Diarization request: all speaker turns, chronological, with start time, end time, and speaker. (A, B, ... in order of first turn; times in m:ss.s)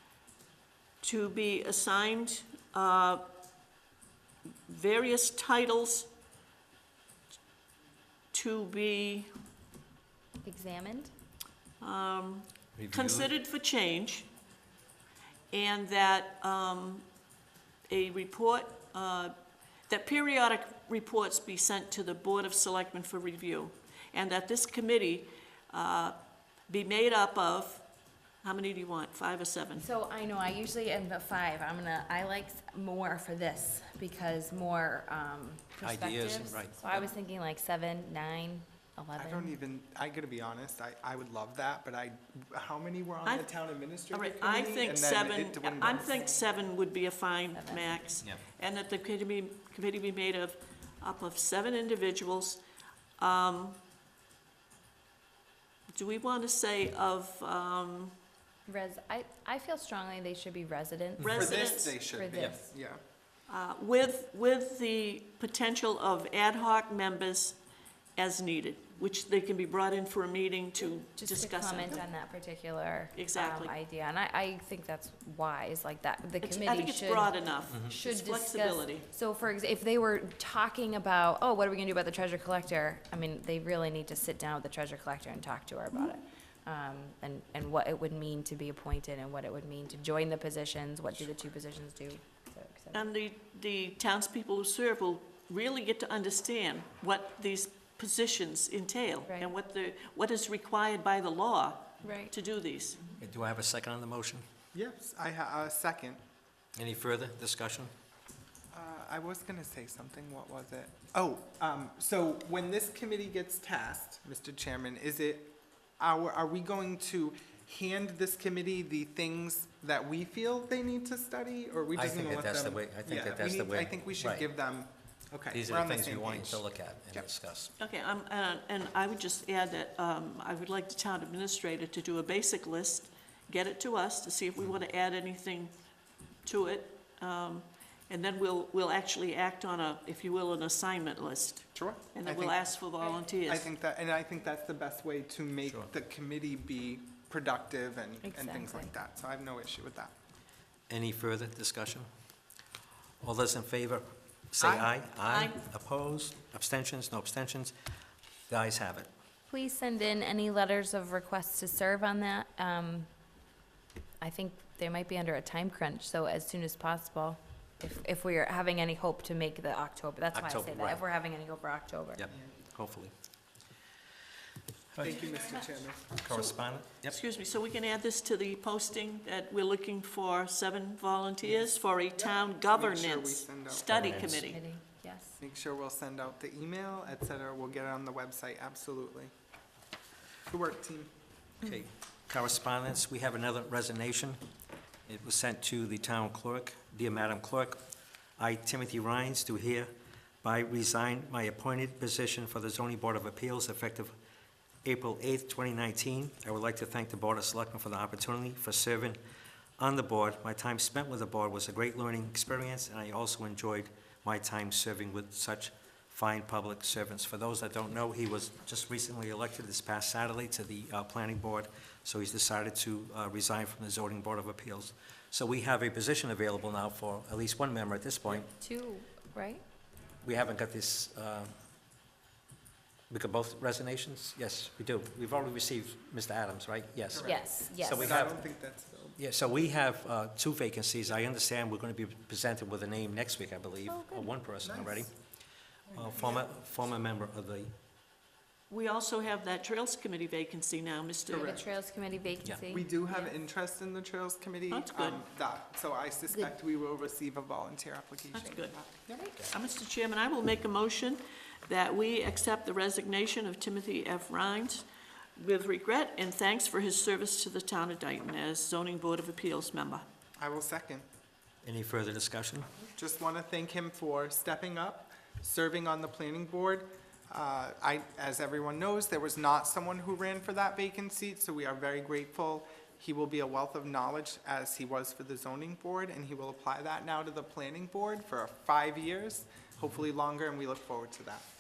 0:01.0-0:03.2 A
0:04.7-0:06.1 A
0:08.3-0:09.3 A
0:10.4-0:11.1 B
0:11.8-0:14.3 A
0:12.8-0:13.3 C
0:15.5-0:17.0 A
0:17.9-0:19.3 A
0:19.9-0:26.2 A
0:26.7-0:27.8 A
0:28.4-0:29.9 A
0:29.8-0:39.6 B
0:35.8-0:37.1 C
0:39.2-0:46.2 D
0:44.1-0:52.6 A
0:46.0-0:46.4 B
0:47.6-0:48.0 B
0:53.2-0:53.8 A
0:55.9-0:58.1 A
0:58.7-1:02.6 B
1:01.2-1:01.5 C
1:01.2-1:02.0 A
1:01.4-1:03.0 D
1:03.5-1:07.6 A
1:08.2-1:12.0 A
1:10.8-1:33.1 B
1:13.1-1:13.7 A
1:16.4-1:19.0 A
1:32.9-1:43.0 A
1:42.0-1:42.3 B
1:43.2-1:44.4 C
1:44.7-1:46.2 D
1:46.8-1:47.9 C
1:48.7-2:07.2 D
2:01.9-2:04.5 C
2:05.5-2:07.7 C
2:07.8-2:15.7 A
2:16.4-2:23.7 A
2:21.8-2:22.6 D
2:23.4-2:30.1 D
2:28.2-2:28.9 B
2:30.9-2:32.1 C
2:33.2-2:37.8 C
2:34.6-2:34.9 D
2:35.3-2:35.6 A
2:38.5-2:39.1 C
2:39.5-2:43.1 B
2:44.2-2:52.2 B
2:50.3-2:51.0 C
2:52.2-2:53.1 C
2:54.9-2:55.2 C
2:55.0-2:56.1 D
2:55.1-2:55.7 A
2:56.2-2:57.2 C
2:57.0-3:04.6 A
3:02.2-3:04.3 D
3:03.9-3:04.6 C
3:04.4-3:05.4 B
3:05.4-3:09.3 D
3:10.5-3:11.1 D
3:11.6-3:14.4 C
3:15.1-3:17.8 C
3:18.4-3:19.9 C
3:20.4-3:24.1 C
3:24.8-3:29.2 C
3:29.8-3:48.5 C
3:48.5-3:49.6 B
3:50.2-3:51.5 C
3:53.1-3:58.4 C
3:57.1-3:59.2 D
3:57.2-3:58.2 B
3:59.2-4:05.1 C
4:03.8-4:04.3 B
4:04.6-4:05.1 D
4:05.9-4:06.5 D
4:05.9-4:07.7 C
4:08.7-4:11.6 A
4:11.3-4:11.6 D
4:11.5-4:13.3 B
4:12.7-4:19.4 D
4:14.7-4:15.2 A
4:18.3-4:18.8 A
4:19.5-4:30.0 A
4:30.4-4:31.1 D
4:31.6-4:32.8 C
4:32.9-4:51.5 D